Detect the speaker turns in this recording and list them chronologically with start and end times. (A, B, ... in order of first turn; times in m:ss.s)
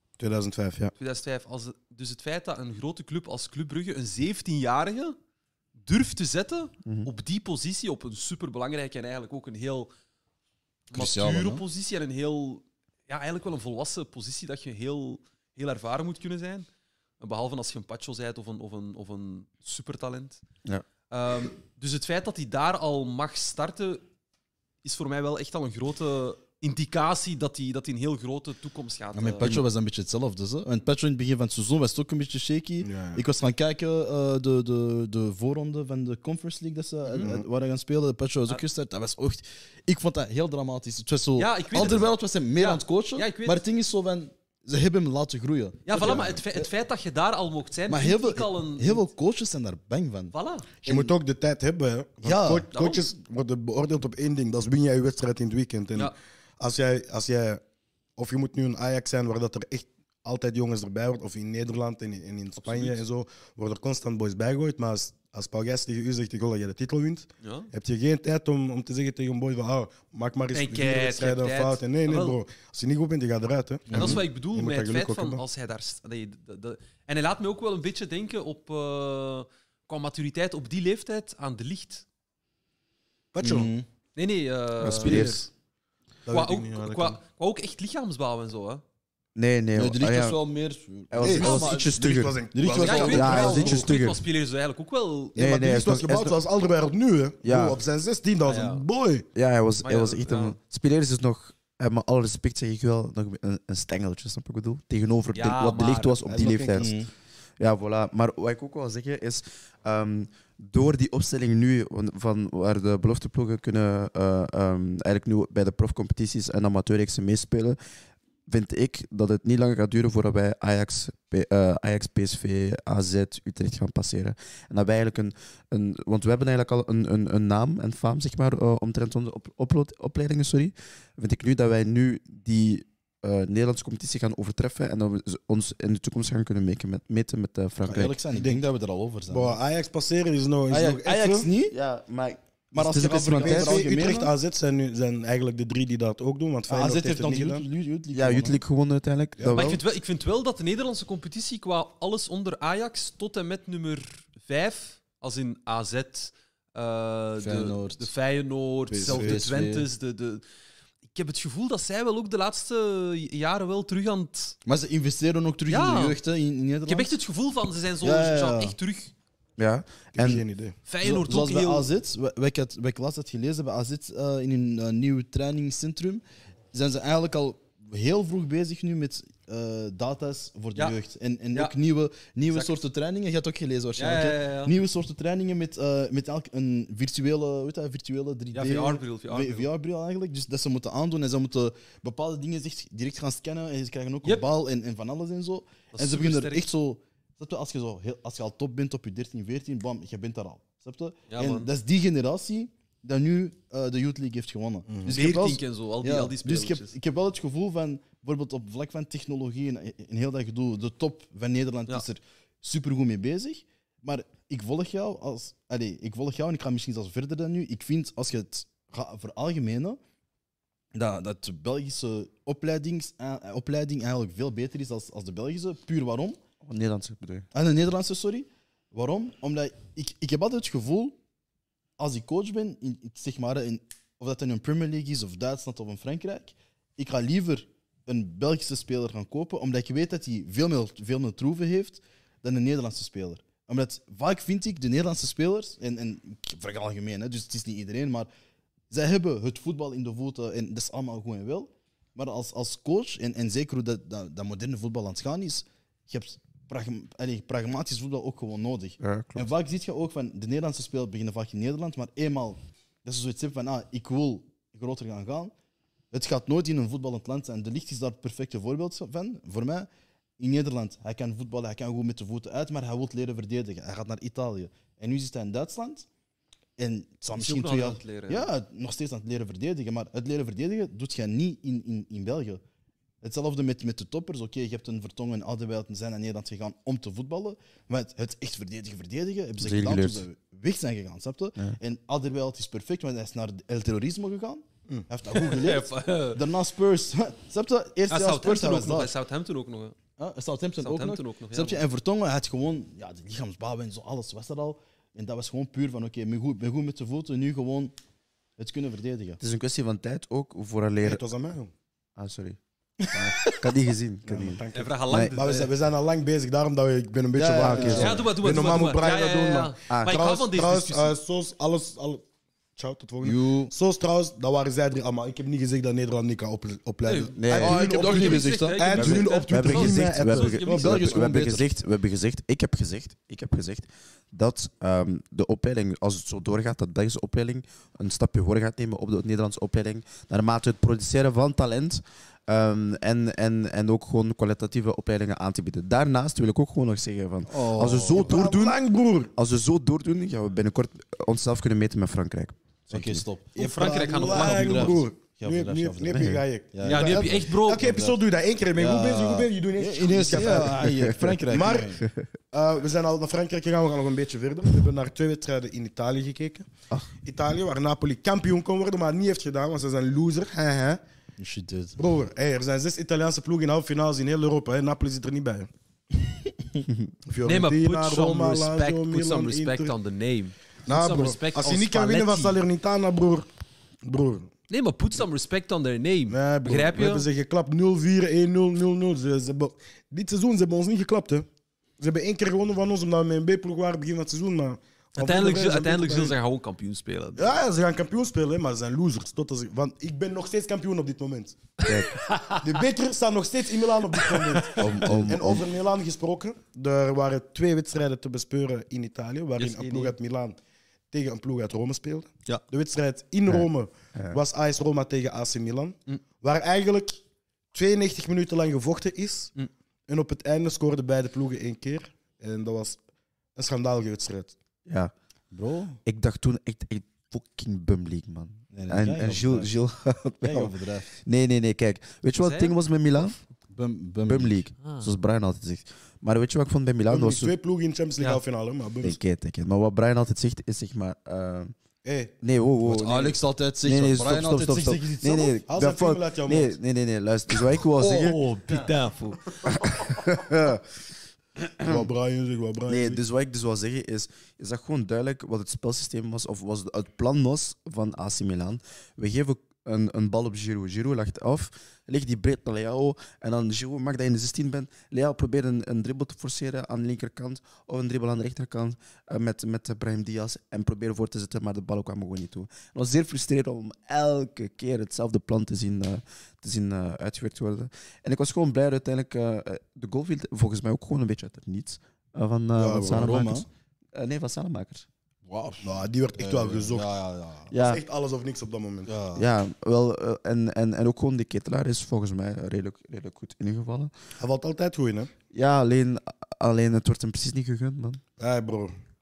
0:00.2-0:00.9 A
0:01.0-0:05.2 B
0:05.8-0:09.9 B
0:06.8-0:07.1 C
0:10.9-0:16.7 B
0:10.9-0:11.6 D
0:17.2-0:20.4 B
0:21.1-0:24.0 B
0:24.8-0:29.6 B
0:29.1-0:46.6 D
0:32.8-0:33.2 A
0:37.0-0:37.3 B
0:37.2-0:37.4 A
0:41.4-0:43.6 B
0:45.8-0:49.1 B
0:46.0-0:46.2 A
0:47.9-0:50.3 D
0:50.3-0:50.7 B
0:50.8-0:57.6 A
0:50.8-0:51.1 D
0:52.2-0:52.7 D
0:52.7-0:53.0 B
0:58.2-1:15.4 A
1:02.6-1:03.0 B
1:07.4-1:07.7 B
1:10.5-1:12.4 B
1:13.9-1:14.2 D
1:13.9-1:22.0 B
1:23.3-1:23.7 A
1:23.4-1:23.8 D
1:24.2-1:25.4 B
1:24.8-1:25.4 C
1:25.0-1:25.5 A
1:26.2-1:27.2 A
1:26.3-1:28.8 B
1:29.4-1:30.4 C
1:29.8-1:31.9 D
1:31.1-1:32.4 C
1:31.2-1:33.9 A
1:31.4-1:31.8 B
1:32.5-1:33.8 D
1:32.8-1:35.4 B
1:33.1-1:34.2 C
1:35.4-1:36.3 C
1:35.4-1:39.2 A
1:37.4-1:37.8 C
1:38.4-1:38.8 B
1:39.3-1:46.9 C
1:39.8-1:40.6 B
1:45.3-1:46.2 B
1:46.3-1:46.9 A
1:46.8-1:47.1 D
1:47.6-1:57.8 C
1:58.5-2:18.2 C
2:17.8-2:19.6 D
2:18.3-2:18.6 A
2:19.3-2:21.5 A
2:20.7-2:21.8 D
2:21.7-2:23.8 C
2:22.7-2:24.3 D
2:22.8-2:27.6 A
2:26.7-2:28.6 D
2:28.1-2:29.8 C
2:29.4-2:29.8 A
2:29.5-2:40.4 B
2:37.4-2:38.1 D
2:38.9-2:39.9 D
2:39.1-2:39.4 A
2:41.1-2:44.6 B
2:44.6-2:47.1 D
2:45.7-2:46.2 B
2:46.9-2:49.1 B
2:48.0-2:48.7 D
2:49.6-2:50.4 C
2:50.2-2:50.8 A
2:50.9-2:51.9 B
2:51.0-3:40.0 D
3:02.5-3:02.8 B
3:04.0-3:04.8 B
3:08.5-3:09.7 B
3:15.9-3:16.7 B
3:21.3-3:21.7 B
3:24.9-3:25.2 A
3:25.1-3:27.0 B
3:40.9-3:46.4 D
3:46.6-3:47.5 C
3:47.5-3:51.2 D
3:52.0-4:08.3 D
4:08.9-4:25.5 D
4:19.0-4:19.5 C
4:26.1-4:29.9 D
4:30.4-4:36.0 D
4:36.8-4:42.6 D
4:37.4-4:38.5 B
4:43.2-4:59.1 D
4:49.6-4:50.2 C
4:55.3-4:56.5 B
4:58.1-5:00.0 B
5:00.2-5:07.9 D
5:00.8-5:01.8 B
5:08.6-5:09.4 D
5:09.4-5:11.2 C
5:11.0-5:11.7 A
5:12.2-5:12.6 C
5:13.0-5:13.6 D
5:13.4-5:15.4 C
5:14.3-5:22.2 A
5:14.7-5:15.7 B
5:17.4-5:18.3 D
5:17.7-5:18.2 C
5:17.9-5:21.2 B
5:19.9-5:20.2 C
5:22.8-5:31.2 A
5:23.2-5:23.7 D
5:27.0-5:30.9 B
5:27.4-5:27.8 C
5:27.6-5:29.3 D
5:29.5-5:48.8 C
5:30.7-5:31.7 D
5:47.5-5:48.4 D
5:48.1-5:49.3 A
5:49.3-5:53.2 C
5:52.9-5:58.2 D
5:53.6-6:02.0 A
5:53.6-5:55.0 B
5:56.1-5:56.4 C
5:56.8-5:57.9 B
5:58.8-6:02.0 D
6:00.8-6:01.1 C
6:02.5-6:06.7 A
6:07.2-6:11.0 A
6:11.4-6:12.0 D
6:12.0-6:15.7 A
6:17.3-6:19.9 A
6:17.4-6:22.6 B
6:20.9-6:23.5 A
6:24.0-6:24.5 A
6:24.7-6:27.3 B
6:26.3-6:31.4 A
6:32.0-6:36.3 A
6:35.2-6:37.6 B
6:37.4-6:41.6 A
6:41.8-6:42.8 B
6:41.8-6:42.1 C
6:42.6-6:50.6 A
6:44.2-6:44.9 B
6:44.8-6:45.6 C
6:49.6-6:50.1 B
6:51.1-6:57.2 A
6:53.5-6:54.4 C
6:57.7-6:59.5 A
7:00.1-7:03.0 A
7:03.6-7:04.5 A
7:04.9-7:05.1 C
7:05.5-7:06.0 D
7:06.0-7:13.4 C
7:08.7-7:09.7 D
7:10.4-7:11.1 D
7:12.4-7:12.7 B
7:13.7-7:14.6 D
7:14.3-7:17.5 C
7:14.8-7:15.1 B
7:17.1-7:19.2 A
7:19.0-7:21.7 C
7:22.0-7:22.3 A
7:22.4-7:28.4 C
7:22.8-7:25.6 D
7:25.6-7:26.8 A
7:28.0-7:29.8 B
7:29.7-7:30.8 C
7:31.6-7:32.0 C
7:31.8-7:33.2 A
7:32.9-8:05.1 C
8:02.8-8:03.2 A
8:03.0-8:03.6 D
8:05.4-8:07.7 D
8:05.8-8:07.1 A
8:07.7-8:08.0 C
8:07.8-8:09.1 A
8:09.0-8:09.4 D
8:09.4-8:14.1 C
8:14.4-8:15.3 A
8:15.5-8:18.2 C
8:18.4-8:18.9 A